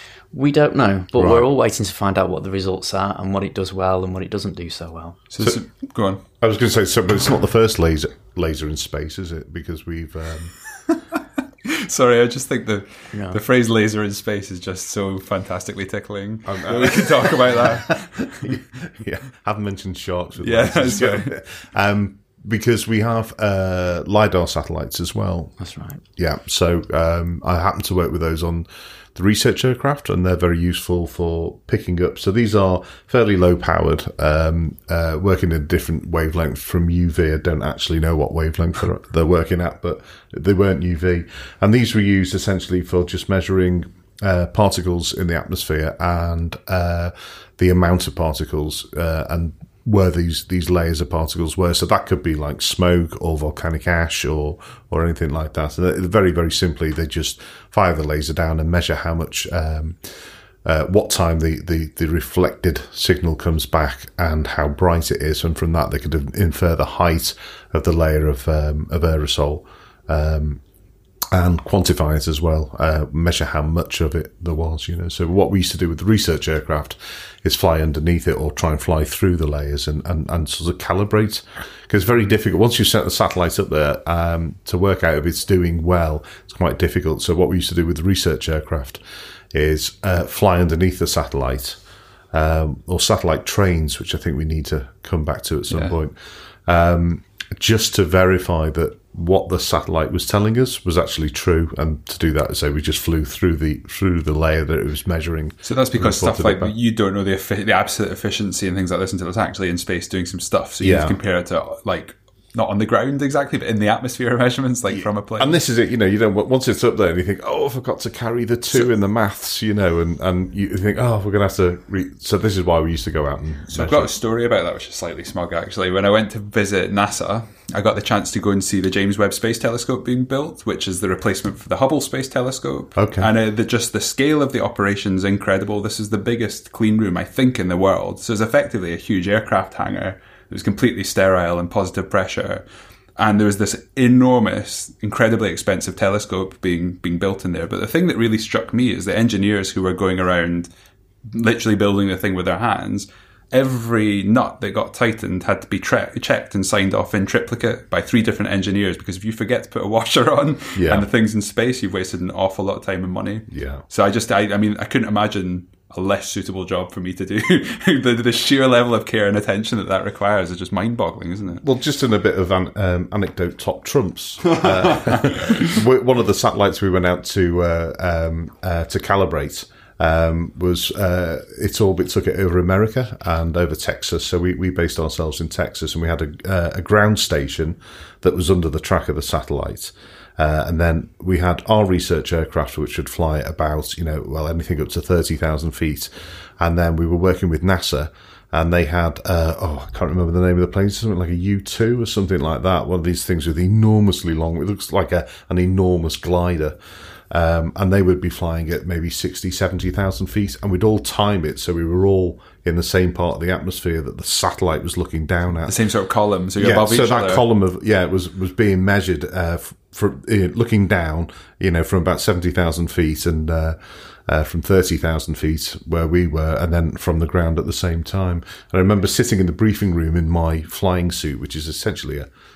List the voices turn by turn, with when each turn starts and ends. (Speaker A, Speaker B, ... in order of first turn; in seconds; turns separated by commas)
Speaker A: 0.3-5.2, Speaker B: 1.1-1.5, Speaker C: 5.3-6.2, Speaker B: 6.4-10.6, Speaker C: 11.7-18.6, Speaker A: 13.1-13.4, Speaker B: 16.4-25.6, Speaker C: 20.4-21.3, Speaker A: 25.6-26.0, Speaker B: 26.2-70.6, Speaker B: 71.3-89.0, Speaker B: 89.5-91.8, Speaker B: 92.3-106.7, Speaker C: 105.6-115.6, Speaker B: 110.8-111.2, Speaker B: 114.9-124.1, Speaker C: 123.7-142.6, Speaker B: 132.9-133.3, Speaker C: 143.2-150.7, Speaker C: 151.2-171.6, Speaker B: 160.8-161.1, Speaker B: 163.5-163.8, Speaker B: 171.6-206.8, Speaker C: 174.6-175.5, Speaker B: 207.3-215.8, Speaker C: 215.7-217.4, Speaker B: 216.6-232.3